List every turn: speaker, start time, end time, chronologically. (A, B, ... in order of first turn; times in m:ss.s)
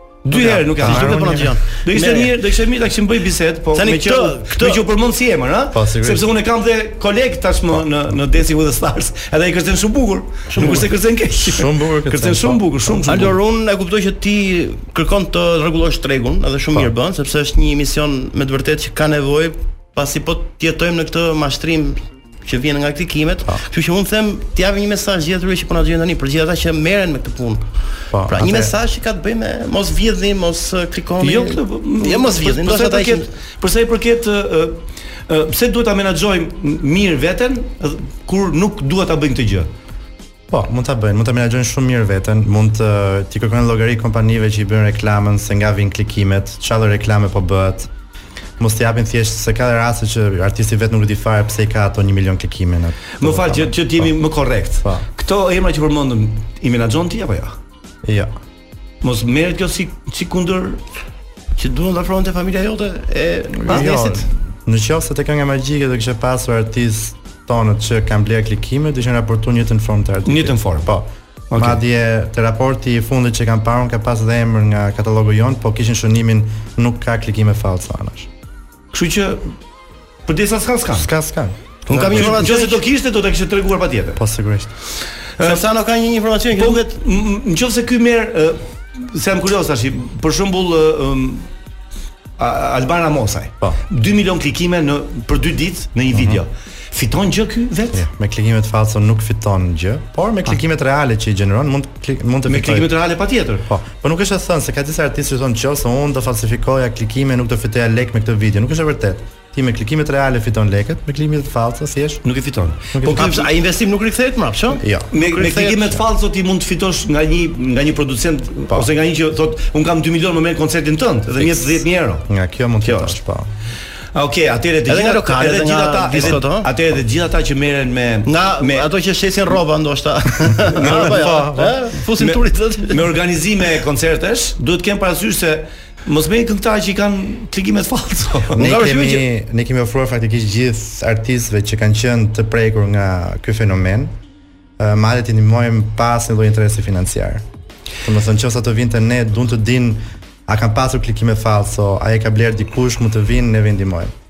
0:00.3-0:13.3 A
0:00.3-0:02.3 B
0:00.7-0:01.5 C
0:03.8-0:04.8 B
0:05.7-0:06.2 C
0:10.5-0:10.8 B
0:11.4-0:13.3 C
0:13.1-0:27.7 B
0:28.1-0:28.7 C
0:28.3-0:33.3 B
0:31.2-0:39.7 A
0:40.5-0:47.9 C
0:48.6-0:54.1 C
0:53.2-0:57.6 A
0:54.8-0:55.1 C
0:58.0-0:58.3 C
0:59.0-1:00.8 A
1:01.6-1:04.2 B
1:03.6-1:18.3 C
1:03.7-1:04.0 A
1:10.3-1:10.9 A
1:11.5-1:11.8 A
1:18.9-1:19.5 A
1:20.3-1:21.1 A
1:21.0-1:22.4 C
1:21.9-1:22.8 B
1:21.9-1:24.2 A
1:24.2-1:24.7 C
1:25.4-1:25.6 A
1:25.4-1:27.0 B
1:26.6-1:31.5 A
1:32.4-1:38.0 A
1:36.1-1:36.4 C
1:37.9-1:42.9 C
1:42.5-1:43.6 A
1:43.7-1:52.2 C
1:52.2-1:53.5 A
1:52.9-1:53.3 C
1:53.2-1:55.8 B
1:54.8-1:55.1 C
1:55.1-2:02.3 A
2:01.4-2:03.5 C
2:02.8-2:03.2 A
2:04.2-2:08.9 A
2:04.9-2:06.7 B
2:08.3-2:13.0 B
2:10.7-2:11.2 A
2:10.8-2:11.8 C
2:12.2-2:18.7 A
2:18.6-2:24.1 C
2:18.6-2:19.2 B
2:24.8-2:27.4 C
2:28.0-2:34.1 C